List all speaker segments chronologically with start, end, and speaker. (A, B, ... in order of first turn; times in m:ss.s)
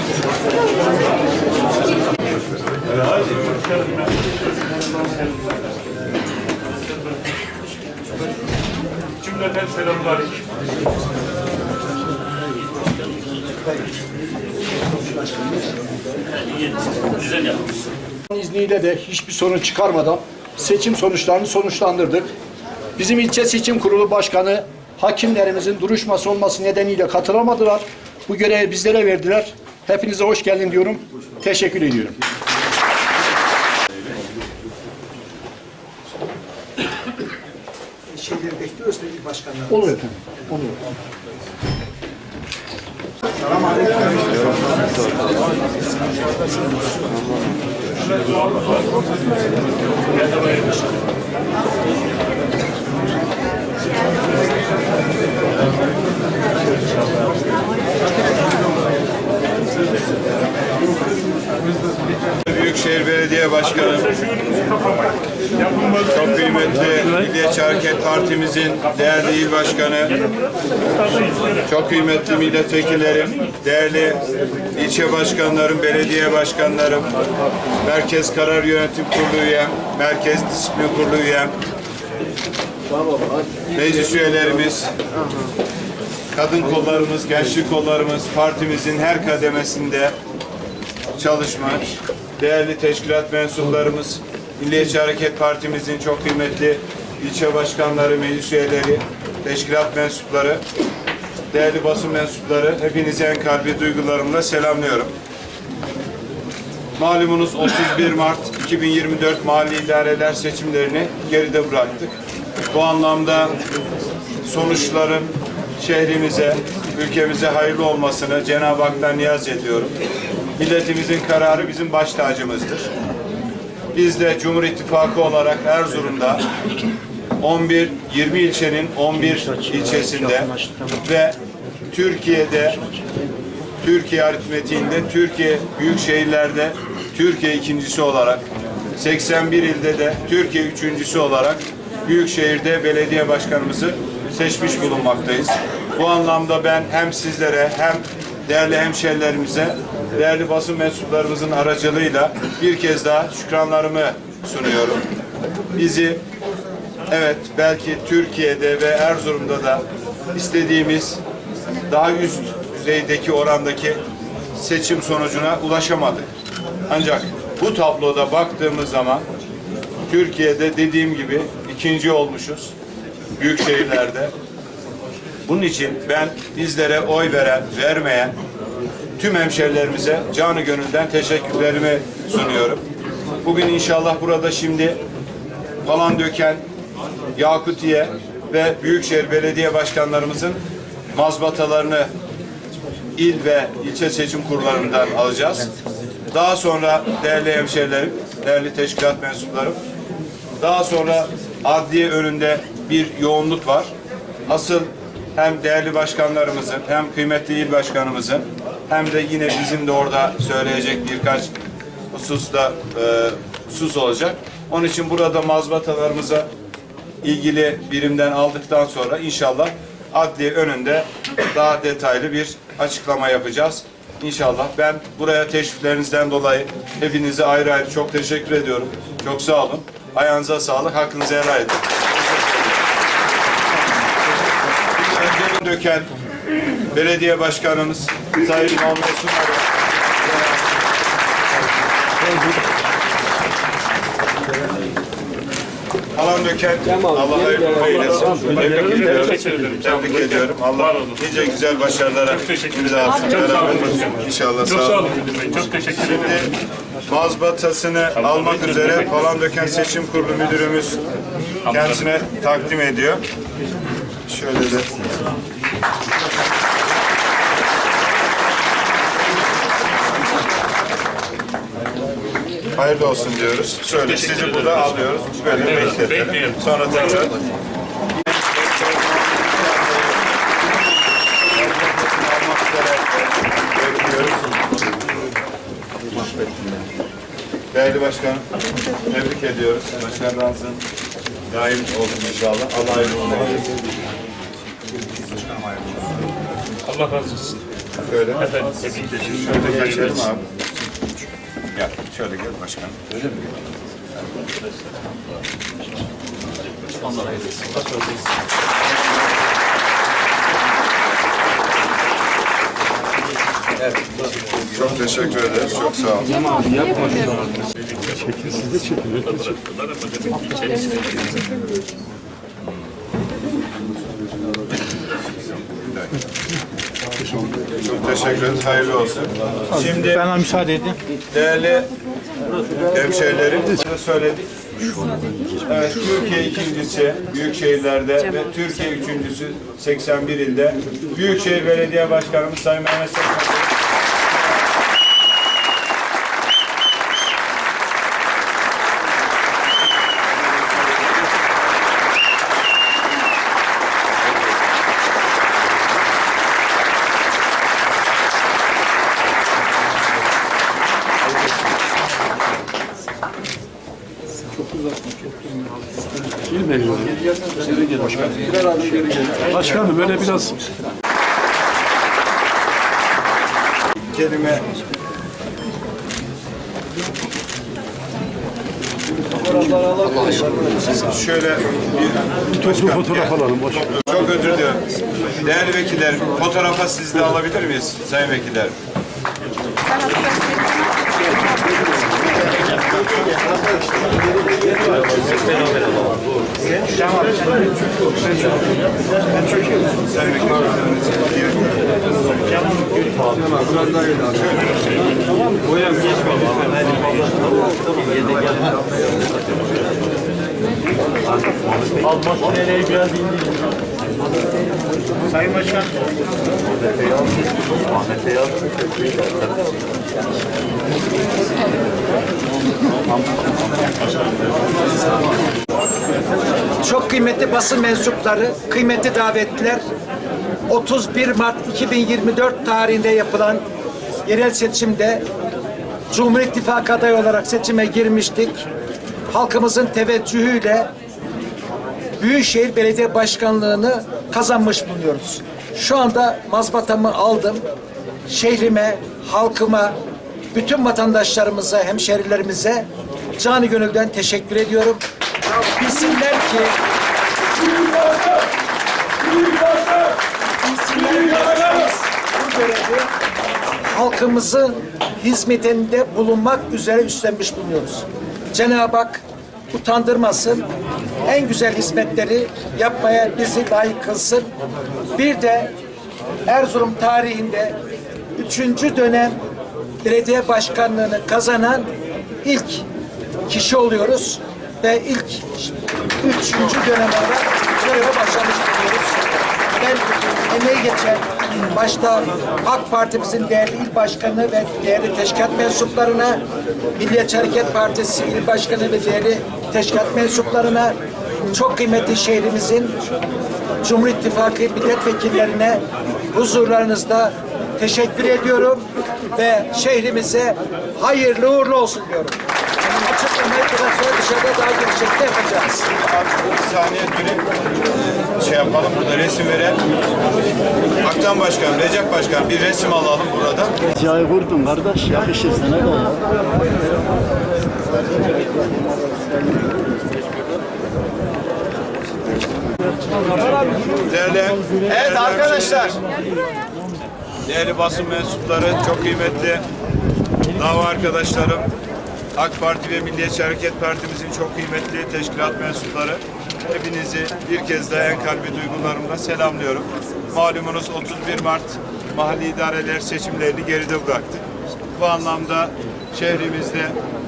0:03.3-0:03.6 A
0:09.2-0:10.4 A
0:18.3-0:22.3 B
0:23.0-0:32.2 B
0:38.1-0:40.0 C
0:39.7-0:40.7 B
0:43.6-0:44.6 C
1:02.4-1:04.2 D
1:03.8-1:06.6 A
1:06.0-1:10.2 D
1:11.1-1:11.5 A
1:11.6-1:17.1 D
1:17.8-1:21.6 D
1:23.7-1:24.9 D
1:26.3-1:30.2 D
1:31.2-1:40.6 D
1:41.5-1:45.1 D
1:47.0-1:52.2 D
1:52.7-1:53.6 D
1:54.4-1:59.9 D
2:00.6-2:02.9 D
2:03.9-2:06.5 D
2:07.4-2:11.4 D
2:11.9-2:12.8 D
2:13.8-2:18.4 D
2:19.0-2:35.0 D
2:35.8-2:36.2 D
2:37.1-2:41.2 D
2:41.9-2:44.0 D
2:44.5-2:46.3 D
2:46.9-2:49.2 D
2:50.1-2:52.7 D
2:53.4-2:54.3 D
2:55.5-2:58.4 D
2:59.2-3:02.8 D
3:03.4-3:05.0 D
3:05.8-3:06.7 D
3:07.3-3:10.6 D
3:11.1-3:12.1 D
3:13.2-3:15.7 D
3:16.3-3:19.8 D
3:20.6-3:23.9 D
3:24.5-3:31.5 D
3:32.1-3:36.5 D
3:37.2-3:52.7 D
3:54.9-3:56.2 D
3:56.9-3:59.7 D
4:06.2-4:15.1 D
4:08.1-4:11.2 A
4:12.3-4:16.5 A
4:15.9-4:16.5 D
4:17.1-4:21.0 D
4:18.2-4:19.1 A
4:21.6-4:22.1 A
4:21.6-4:23.2 D
4:24.3-4:25.1 D
4:32.7-4:37.4 D
4:34.0-4:35.0 A
4:35.6-4:37.3 A
4:38.1-4:44.9 D
4:47.7-4:48.5 D
4:49.1-4:50.8 D
4:51.5-4:53.7 D
4:56.9-4:57.6 A
4:58.0-4:58.6 D
4:58.4-5:00.2 A
4:59.3-5:00.5 D
5:01.7-5:03.4 D
5:14.6-5:16.4 D
5:16.8-5:21.6 A
5:27.8-5:30.4 D
5:31.3-5:31.9 D
5:32.9-5:35.0 D
5:35.6-5:43.7 D
6:04.5-6:05.6 B
6:06.3-6:06.9 B
6:07.9-6:10.6 B
6:14.1-6:14.7 D
6:20.6-6:28.8 D
6:34.9-6:35.8 E
6:39.9-6:41.8 D
6:42.7-6:43.7 E
6:44.2-6:44.8 D
6:51.9-6:53.1 E
6:55.3-6:55.9 E
7:06.8-7:09.8 C
7:10.7-7:13.6 C
7:14.2-7:15.2 C
7:16.1-7:18.6 C
7:19.3-7:20.9 C
7:22.2-7:27.6 C
7:28.3-7:30.0 C
7:30.5-7:36.8 C
7:37.9-7:38.2 C
7:39.4-7:43.1 C
7:43.9-7:50.7 C
7:51.2-7:54.5 C
7:55.1-7:55.7 C
7:56.4-7:57.8 C
7:58.4-7:59.4 C
8:00.0-8:01.9 C
8:02.4-8:02.9 C
8:03.5-8:16.4 C
8:17.0-8:21.0 C
8:21.5-8:23.0 C
8:23.8-8:32.4 C
8:32.9-8:35.8 C
8:35.8-8:37.5 D
8:38.2-8:39.8 D
8:41.0-8:43.8 D
8:44.0-8:46.3 E
8:54.0-8:55.9 D
8:57.4-8:59.6 D
9:00.5-9:01.6 D
9:02.3-9:17.0 D